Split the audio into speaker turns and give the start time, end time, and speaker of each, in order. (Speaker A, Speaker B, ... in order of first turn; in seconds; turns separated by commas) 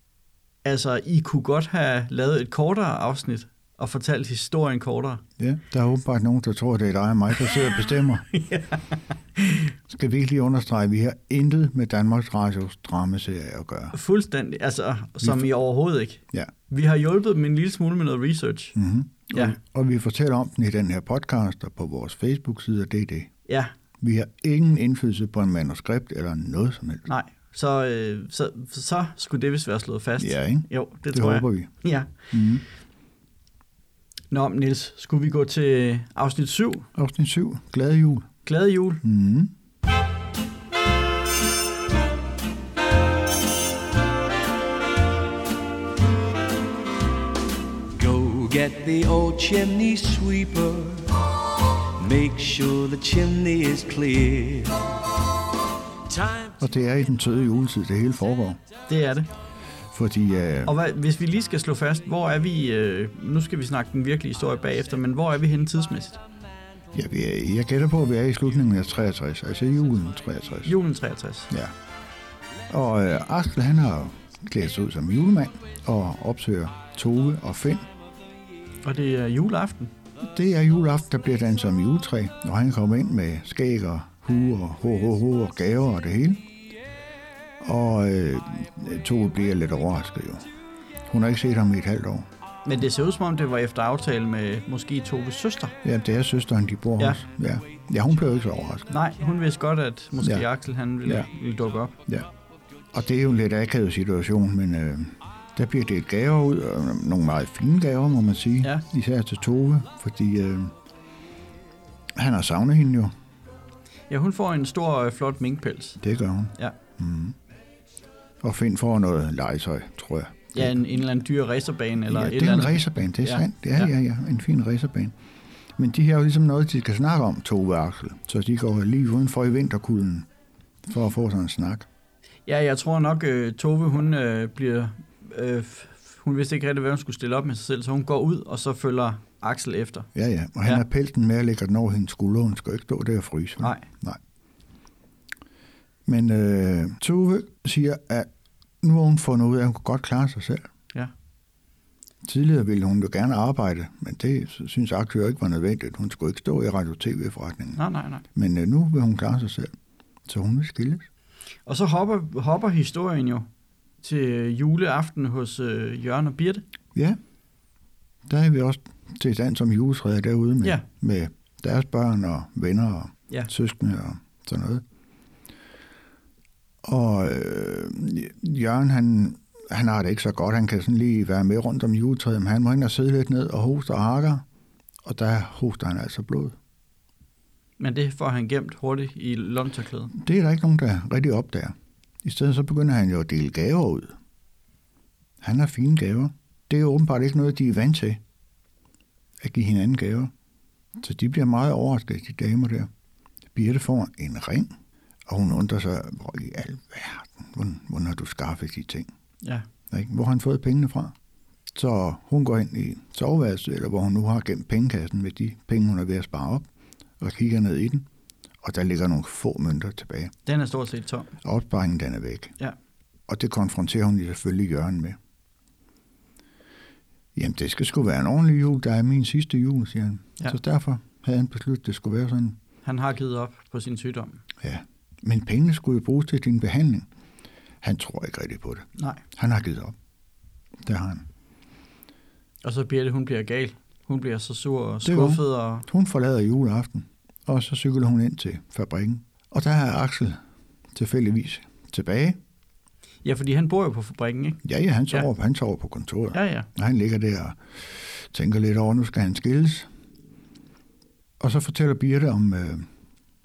Speaker A: 0.6-5.2, Speaker B: 5.4-8.3, Speaker A: 8.3-9.7, Speaker B: 9.9-13.9, Speaker A: 13.9-18.8, Speaker B: 15.2-15.5, Speaker B: 18.8-23.3, Speaker A: 19.3-19.6, Speaker A: 23.5-23.7, Speaker B: 24.0-27.1, Speaker A: 27.1-32.1, Speaker B: 30.2-31.7, Speaker B: 32.3-32.6, Speaker A: 34.3-36.9, Speaker B: 37.0-38.3, Speaker A: 38.4-39.0, Speaker B: 39.0-39.5, Speaker C: 48.0-51.2, Speaker C: 52.0-55.0, Speaker C: 56.1-56.6, Speaker B: 56.6-58.6, Speaker A: 58.9-59.3, Speaker B: 59.9-60.7, Speaker A: 60.6-66.2, Speaker B: 66.9-70.8, Speaker A: 70.7-71.5, Speaker B: 72.7-77.9, Speaker A: 78.8-79.9, Speaker B: 80.2-86.5, Speaker B: 87.6-90.4, Speaker B: 91.1-92.3, Speaker A: 92.7-95.8, Speaker B: 95.8-98.9, Speaker A: 98.9-102.0, Speaker B: 100.2-100.5, Speaker B: 102.9-110.7, Speaker B: 112.2-113.1, Speaker A: 114.1-116.0, Speaker B: 116.0-117.4, Speaker B: 118.4-120.8, Speaker A: 120.5-123.9, Speaker B: 122.1-125.2, Speaker B: 125.8-130.3, Speaker B: 130.9-131.9, Speaker A: 132.5-140.1, Speaker B: 140.2-144.2, Speaker B: 146.1-148.3, Speaker B: 148.8-150.7, Speaker B: 152.2-157.8, Speaker A: 157.8-158.2, Speaker B: 158.3-159.7, Speaker B: 160.3-161.1, Speaker A: 161.7-163.5, Speaker A: 164.0-166.6, Speaker B: 168.3-174.8, Speaker B: 176.8-184.4, Speaker B: 185.0-186.6, Speaker A: 187.8-190.1, Speaker B: 190.1-194.2, Speaker B: 195.4-198.2, Speaker B: 199.4-200.3, Speaker B: 201.0-202.9, Speaker B: 203.6-204.7, Speaker B: 205.3-209.1, Speaker B: 209.9-211.2, Speaker B: 211.7-216.7, Speaker B: 217.2-218.1, Speaker B: 218.6-220.3, Speaker A: 220.5-221.3, Speaker B: 221.4-222.6, Speaker B: 223.3-225.2, Speaker B: 227.3-232.6, Speaker A: 232.8-234.4, Speaker B: 234.6-237.1, Speaker B: 237.8-239.9, Speaker B: 240.8-241.3, Speaker A: 242.6-245.9, Speaker B: 245.0-250.4, Speaker B: 250.9-252.4, Speaker A: 253.2-255.3, Speaker B: 254.6-259.9, Speaker A: 256.3-256.7, Speaker B: 261.4-262.9